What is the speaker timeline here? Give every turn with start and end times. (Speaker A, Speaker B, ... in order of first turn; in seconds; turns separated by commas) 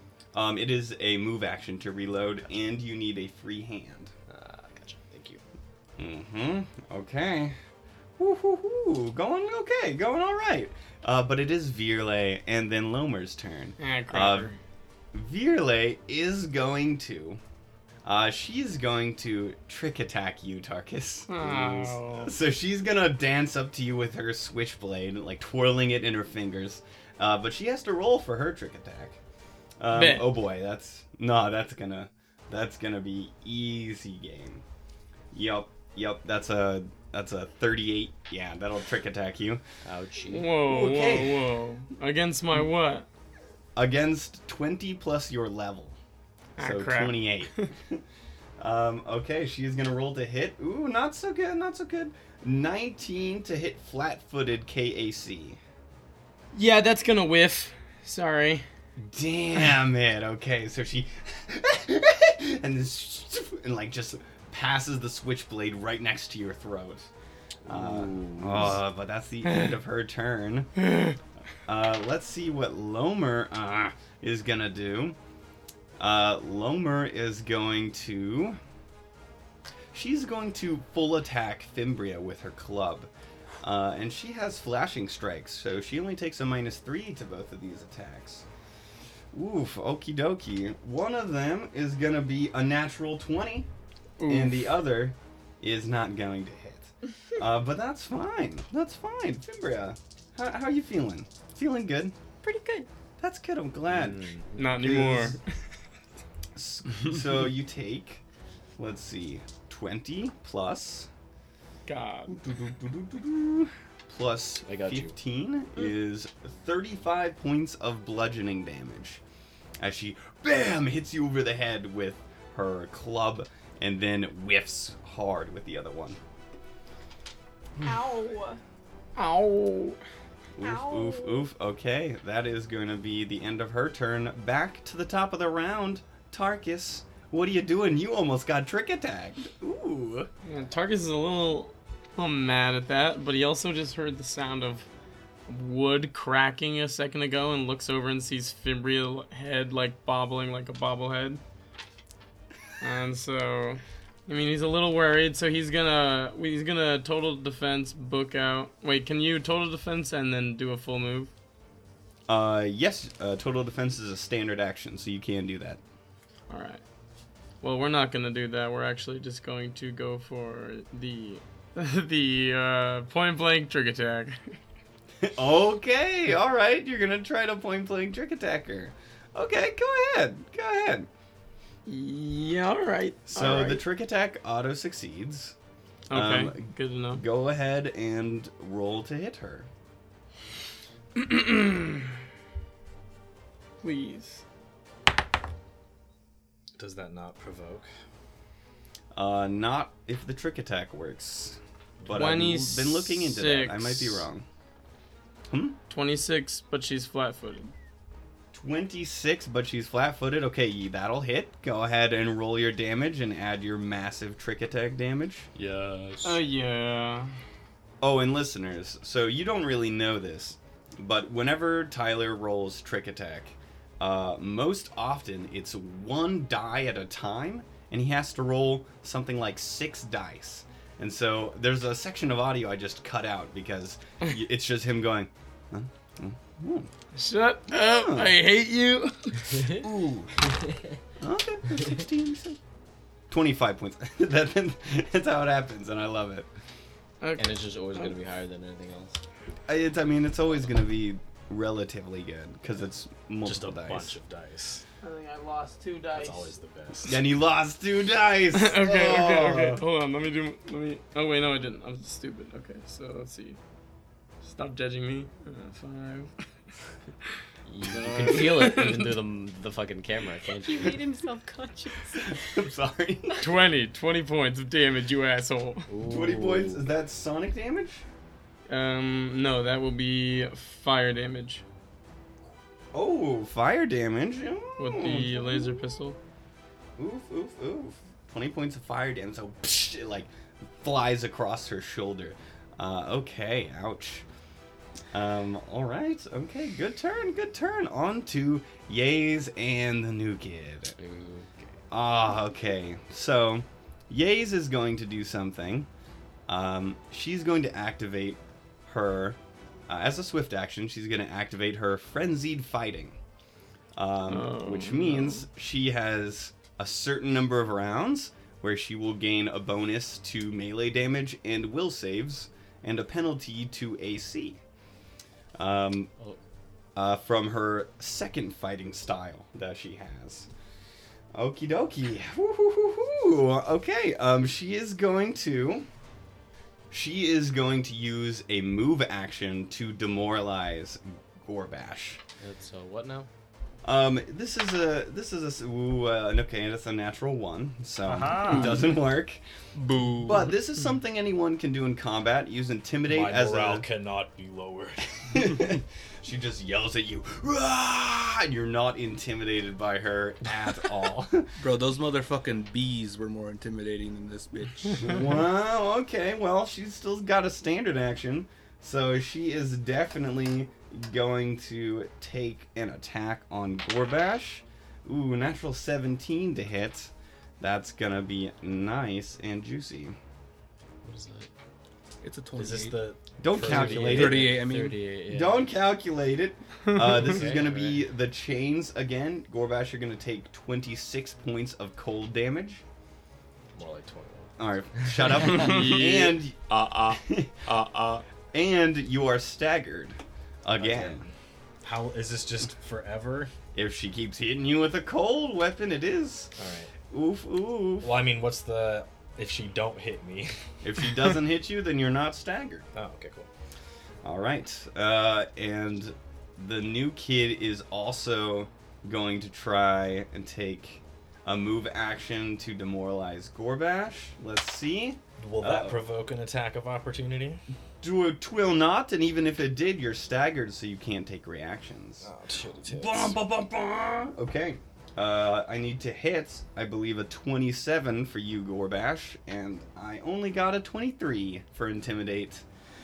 Speaker A: 0.3-4.1, Speaker B: 4.3-5.4, Speaker A: 6.0-7.6, Speaker A: 8.2-14.5, Speaker C: 13.8-14.6, Speaker A: 15.1-17.4, Speaker A: 18.0-29.2, Speaker C: 21.3-22.3, Speaker A: 29.8-34.6, Speaker C: 29.9-30.3, Speaker A: 35.3-39.6, Speaker B: 39.8-40.5, Speaker C: 40.3-43.1, Speaker A: 40.6-41.4, Speaker A: 43.8-46.0, Speaker C: 46.6-47.7, Speaker A: 46.6-48.0, Speaker A: 48.6-55.6, Speaker C: 56.5-58.6, Speaker A: 59.0-67.1, Speaker B: 67.6-68.8, Speaker A: 67.6-70.8, Speaker A: 71.7-75.2, Speaker A: 76.0-78.6, Speaker A: 79.9-83.1, Speaker A: 83.6-88.5, Speaker A: 89.3-93.7, Speaker C: 94.2-94.8, Speaker A: 94.2-102.1, Speaker D: 102.4-102.9, Speaker A: 103.2-105.4, Speaker B: 103.9-104.7, Speaker C: 104.5-105.4, Speaker A: 106.5-108.2, Speaker A: 108.8-111.1, Speaker C: 111.8-112.3, Speaker A: 112.3-119.2, Speaker B: 114.6-115.1, Speaker A: 119.8-126.2, Speaker D: 127.8-128.6, Speaker C: 129.2-130.0, Speaker A: 130.6-140.3, Speaker D: 130.6-131.5, Speaker C: 140.4-144.9, Speaker C: 145.5-151.4, Speaker C: 152.8-161.3, Speaker A: 162.3-165.8, Speaker C: 166.5-166.8, Speaker C: 167.6-174.6, Speaker A: 175.2-181.1, Speaker C: 181.8-183.8, Speaker A: 183.3-185.6, Speaker C: 186.1-187.2, Speaker A: 186.1-189.7, Speaker C: 191.2-191.8, Speaker C: 193.8-194.4, Speaker E: 196.8-197.9, Speaker A: 199.1-204.4, Speaker E: 202.0-202.3, Speaker C: 202.1-204.2, Speaker A: 205.5-205.8, Speaker C: 205.9-207.7, Speaker A: 208.5-215.5, Speaker E: 215.6-216.4, Speaker C: 216.2-217.3, Speaker A: 218.0-236.9, Speaker C: 237.1-239.7, Speaker A: 237.7-238.3, Speaker A: 239.7-240.3, Speaker A: 241.2-242.6, Speaker A: 243.3-246.5, Speaker C: 247.2-248.1, Speaker B: 247.4-249.2, Speaker A: 249.7-254.2, Speaker E: 253.4-254.8, Speaker C: 255.0-256.5, Speaker E: 256.1-257.2, Speaker A: 257.1-259.8, Speaker C: 258.5-263.6, Speaker C: 264.4-266.3, Speaker B: 267.6-271.0, Speaker C: 268.0-269.1, Speaker D: 270.6-272.5, Speaker A: 272.1-273.4, Speaker C: 273.4-275.9, Speaker B: 275.9-276.8, Speaker A: 276.0-278.0, Speaker C: 278.7-281.6, Speaker A: 282.9-285.8, Speaker C: 284.8-286.2, Speaker A: 287.0-294.2, Speaker A: 295.1-301.0, Speaker B: 301.0-301.7, Speaker A: 301.9-305.9, Speaker A: 306.5-313.2, Speaker A: 313.9-324.6, Speaker C: 314.3-315.4, Speaker A: 325.5-326.1, Speaker A: 326.9-330.5, Speaker A: 331.3-335.9, Speaker A: 336.9-342.2, Speaker B: 342.4-343.3, Speaker A: 343.8-349.4, Speaker E: 348.0-348.9, Speaker F: 349.7-350.5, Speaker A: 350.2-353.9, Speaker E: 353.1-355.2, Speaker A: 355.3-361.5, Speaker F: 361.6-365.3, Speaker A: 365.0-380.2, Speaker B: 381.0-381.5, Speaker F: 382.2-383.0, Speaker E: 382.6-384.5, Speaker A: 383.4-384.6, Speaker B: 383.6-385.7, Speaker F: 383.8-385.0, Speaker A: 385.3-392.8, Speaker C: 386.9-387.2, Speaker B: 387.0-388.0, Speaker E: 393.7-394.5, Speaker A: 394.6-396.6, Speaker F: 395.4-398.2, Speaker C: 395.4-396.3, Speaker A: 397.1-397.6, Speaker A: 398.5-401.2, Speaker E: 400.8-403.5, Speaker A: 403.7-406.5, Speaker E: 406.6-406.9, Speaker A: 407.1-408.1, Speaker E: 408.0-410.5, Speaker A: 410.8-412.9, Speaker E: 412.9-413.5, Speaker A: 414.2-426.1, Speaker E: 425.4-427.6, Speaker A: 428.0-432.3, Speaker E: 432.2-433.4, Speaker A: 432.9-442.6